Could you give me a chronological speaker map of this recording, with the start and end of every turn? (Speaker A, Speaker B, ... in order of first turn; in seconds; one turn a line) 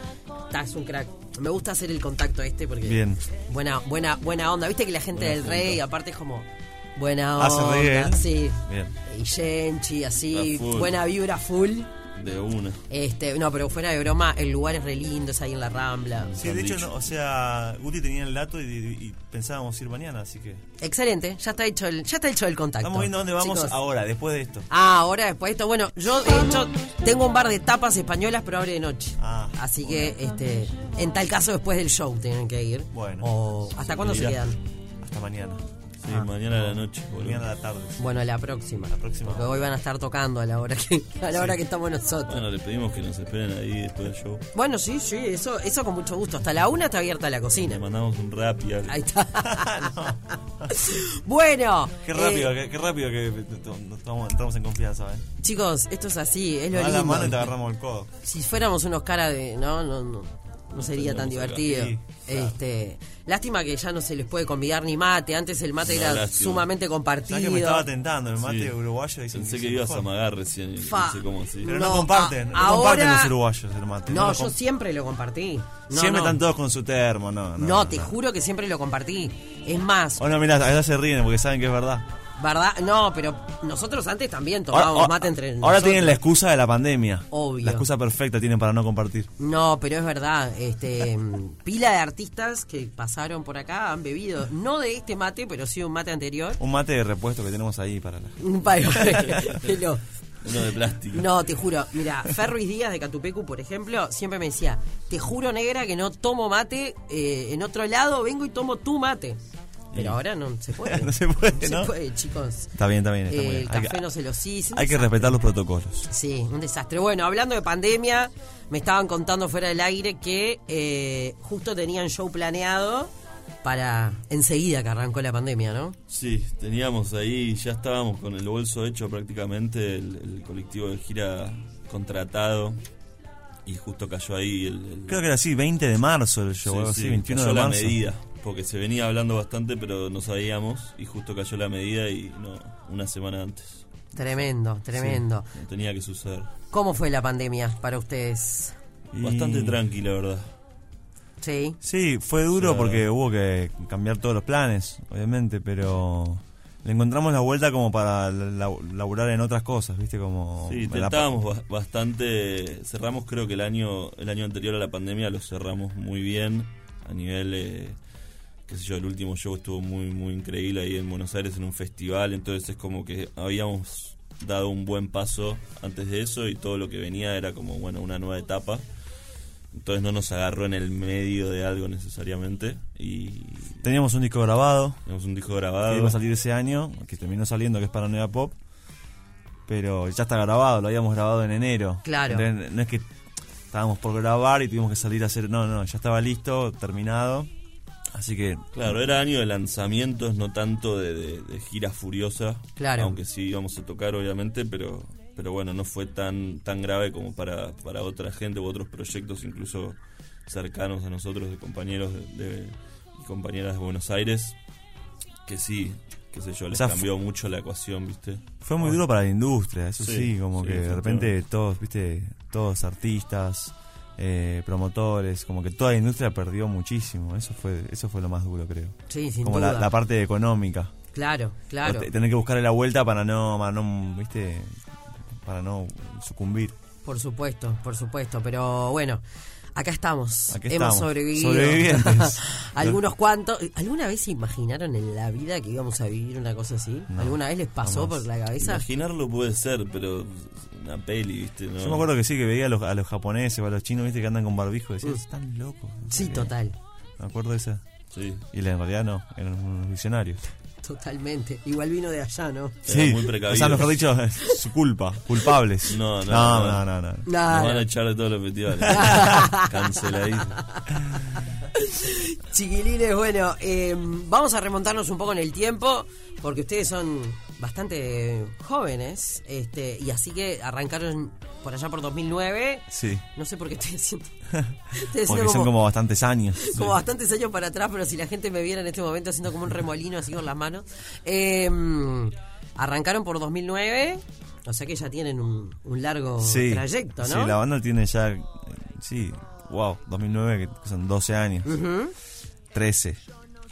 Speaker A: 0.5-11.9
Speaker B: 2.8-3.2
Speaker C: 5.1-5.8
Speaker B: 7.4-8.9
Speaker C: 10.3-11.0
Speaker C: 12.2-12.8
Speaker A: 12.9-16.4
Speaker C: 16.4-16.9
Speaker B: 16.4-20.6
Speaker A: 20.8-23.8
Speaker B: 22.8-24.7
Speaker A: 24.7-34.6
Speaker B: 29.2-29.6
Speaker B: 32.9-33.3
Speaker C: 33.8-34.5
Speaker B: 35.0-35.6
Speaker C: 36.0-37.5
Speaker B: 37.1-38.1
Speaker A: 38.0-42.5
Speaker B: 38.9-39.7
Speaker C: 42.3-44.5
Speaker A: 44.5-47.8
Speaker C: 47.6-49.0
Speaker A: 48.9-50.1
Speaker B: 49.5-50.7
Speaker A: 50.7-52.5
Speaker B: 52.0-55.3
Speaker A: 55.4-57.5
Speaker B: 56.7-58.1
Speaker A: 58.2-67.9
Speaker C: 60.8-61.7
Speaker B: 61.6-62.5
Speaker C: 65.8-66.7
Speaker B: 67.3-70.1
Speaker C: 68.4-68.8
Speaker C: 69.3-71.8
Speaker A: 70.8-73.3
Speaker B: 71.6-74.5
Speaker A: 74.1-76.4
Speaker B: 75.9-78.2
Speaker A: 77.6-80.2
Speaker B: 80.2-82.1
Speaker A: 82.4-86.2
Speaker B: 84.7-89.3
Speaker A: 87.3-87.9
Speaker A: 89.4-96.6
Speaker B: 96.6-99.6
Speaker A: 98.4-100.0
Speaker C: 100.4-101.3
Speaker A: 101.1-109.4
Speaker A: 109.9-112.7
Speaker B: 110.8-111.9
Speaker B: 112.8-114.1
Speaker A: 113.3-115.4
Speaker B: 114.7-116.1
Speaker A: 116.1-123.1
Speaker A: 123.6-126.0
Speaker C: 126.1-132.8
Speaker C: 133.7-135.2
Speaker B: 135.1-138.0
Speaker C: 136.6-143.8
Speaker A: 144.2-145.5
Speaker B: 145.0-145.2
Speaker C: 145.5-146.5
Speaker A: 146.7-148.8
Speaker B: 149.1-149.8
Speaker C: 149.2-150.5
Speaker A: 151.4-151.8
Speaker B: 151.8-161.3
Speaker C: 152.5-153.0
Speaker C: 160.7-168.0
Speaker C: 168.7-178.8
Speaker C: 179.7-183.8
Speaker B: 183.8-185.0
Speaker C: 185.1-186.2
Speaker B: 185.8-188.6
Speaker B: 189.7-193.0
Speaker A: 192.0-192.5
Speaker B: 193.7-197.5
Speaker B: 198.1-198.9
Speaker C: 198.7-214.6
Speaker A: 202.8-203.2
Speaker C: 215.5-219.0
Speaker B: 216.7-217.1
Speaker B: 218.6-230.9
Speaker C: 220.0-221.3
Speaker A: 229.1-229.9
Speaker A: 231.1-232.1
Speaker B: 231.8-234.8
Speaker B: 235.4-236.8
Speaker A: 237.0-239.2
Speaker A: 239.8-248.8
Speaker B: 240.5-243.0
Speaker B: 247.1-248.3
Speaker C: 248.6-252.1
Speaker B: 251.8-256.5
Speaker A: 256.1-256.8
Speaker B: 257.2-257.8
Speaker C: 258.1-258.5
Speaker B: 258.5-260.4
Speaker A: 260.8-262.8
Speaker C: 262.9-263.9
Speaker B: 262.9-267.3
Speaker C: 265.9-266.9
Speaker A: 267.2-267.9
Speaker C: 267.5-270.6
Speaker B: 268.9-269.1
Speaker A: 268.9-270.0
Speaker A: 270.5-270.9
Speaker A: 271.7-284.3
Speaker B: 282.9-283.2
Speaker A: 284.9-285.7
Speaker B: 285.2-286.9
Speaker A: 286.6-297.6
Speaker B: 296.4-301.7
Speaker A: 301.6-302.1
Speaker B: 302.7-303.2